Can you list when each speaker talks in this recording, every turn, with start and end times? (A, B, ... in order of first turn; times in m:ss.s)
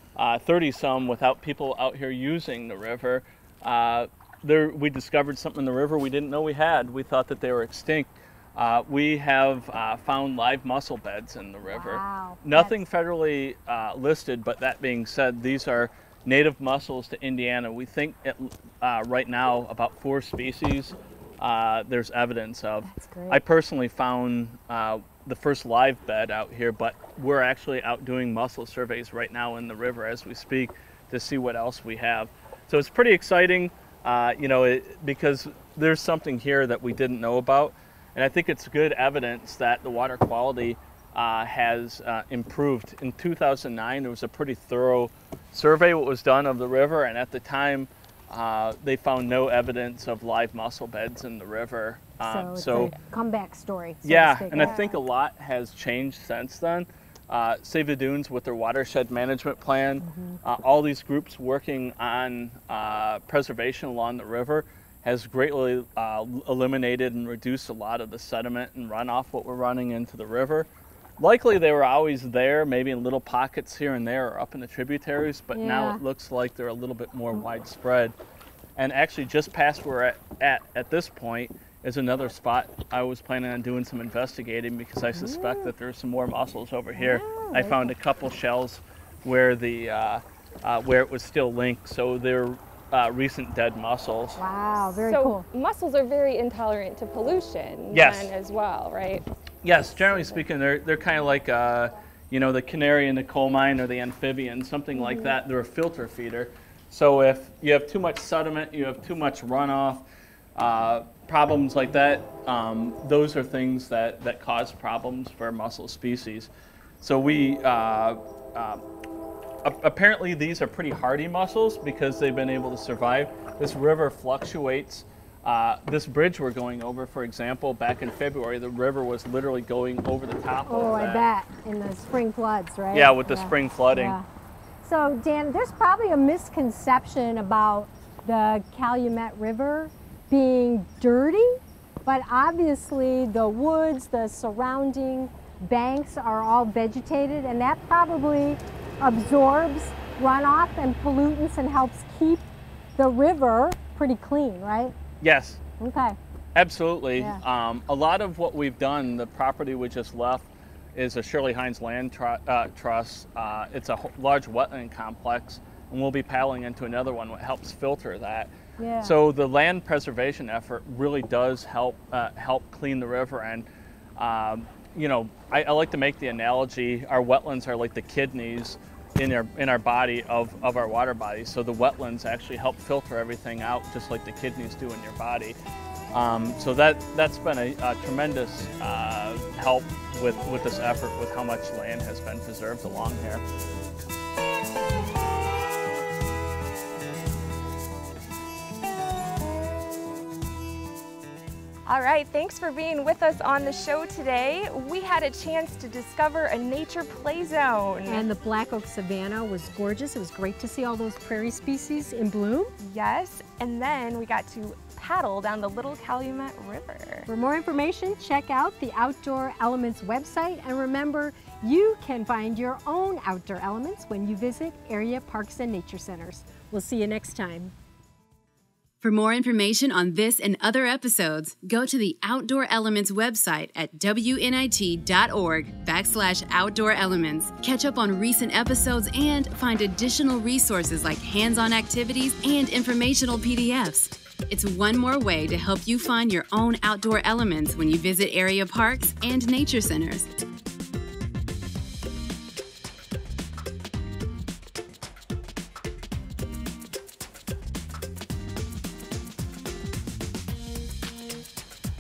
0:00.2-0:52.9 A
0:11.6-0:12.8 B
0:22.8-0:23.4 B
0:52.2-0:54.9 B
0:54.0-1:10.7 A
0:54.5-0:54.9 C
1:00.0-1:00.4 B
1:11.2-1:18.1 A
1:15.5-1:16.0 B
1:18.8-1:34.4 A
1:25.1-1:25.7 B
1:26.9-1:27.9 B
1:34.4-1:35.4 B
1:35.0-1:39.2 C
1:37.9-1:38.3 A
1:39.6-1:50.0 A
1:39.9-1:40.4 C
1:44.9-1:45.3 C
1:50.6-1:58.8 A
1:59.6-2:11.3 A
2:10.7-2:14.2 B
2:12.9-2:14.2 A
2:14.8-2:32.4 B
2:33.0-2:34.9 B
2:35.2-2:35.6 A
2:35.8-2:36.2 B
2:36.5-3:05.6 A
2:48.8-2:49.2 B
3:06.1-3:13.4 A
3:21.9-3:28.2 C
3:28.0-3:32.7 B
3:32.8-3:37.3 C
3:37.3-3:47.7 B
3:49.0-4:10.3 D